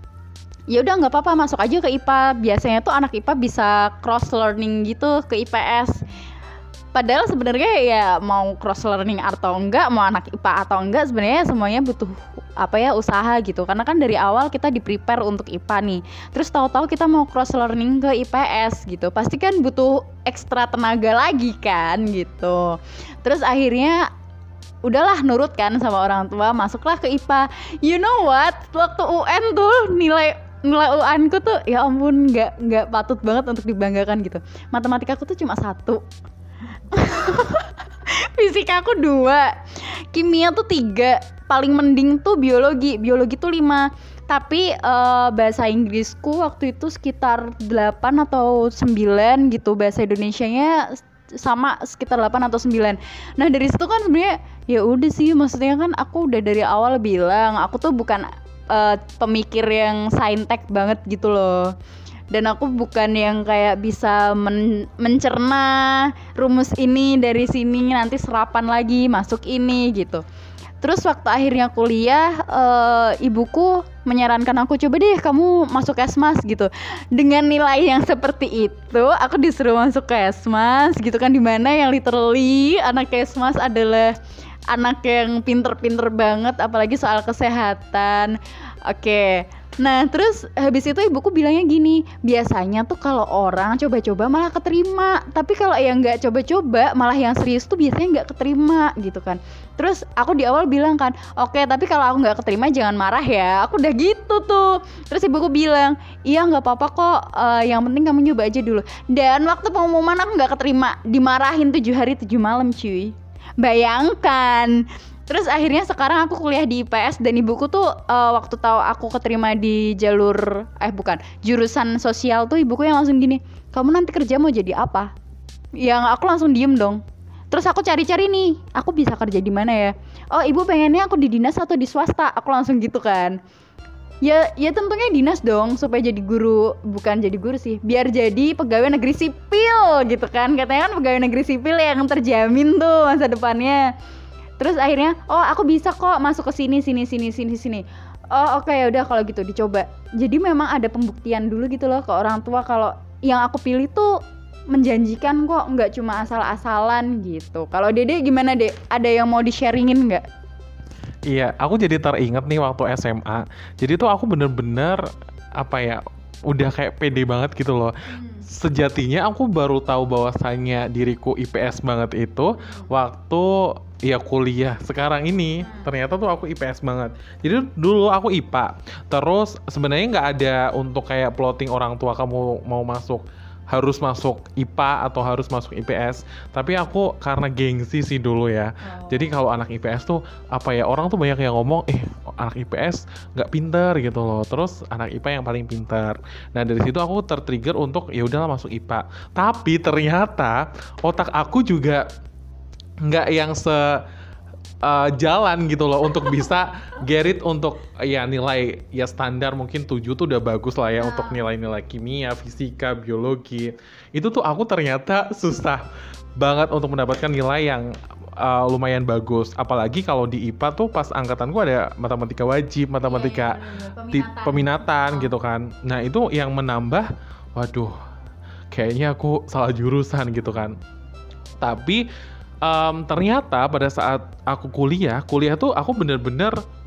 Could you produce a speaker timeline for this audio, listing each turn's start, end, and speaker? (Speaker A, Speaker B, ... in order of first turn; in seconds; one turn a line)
Speaker A: 0.7-6.0
Speaker A: 6.9-24.1
Speaker A: 24.9-36.1
Speaker A: 36.9-61.7
Speaker A: 62.3-70.2
Speaker A: 70.8-84.2
Speaker A: 84.7-125.1
Speaker A: 125.8-133.4
Speaker A: 134.2-143.9
Speaker A: 144.6-160.2
Speaker B: 161.3-165.0
Speaker B: 165.6-167.9
Speaker A: 168.1-168.5
Speaker B: 168.5-202.1
Speaker A: 172.6-172.9
Speaker A: 175.6-175.9
Speaker A: 188.9-189.3
Speaker B: 203.0-204.0
Speaker B: 204.8-215.8
Speaker A: 211.0-211.5
Speaker B: 216.4-223.6
Speaker A: 223.0-225.3
Speaker B: 224.1-228.0
Speaker B: 228.7-230.8
Speaker B: 231.6-232.1
Speaker B: 232.6-236.6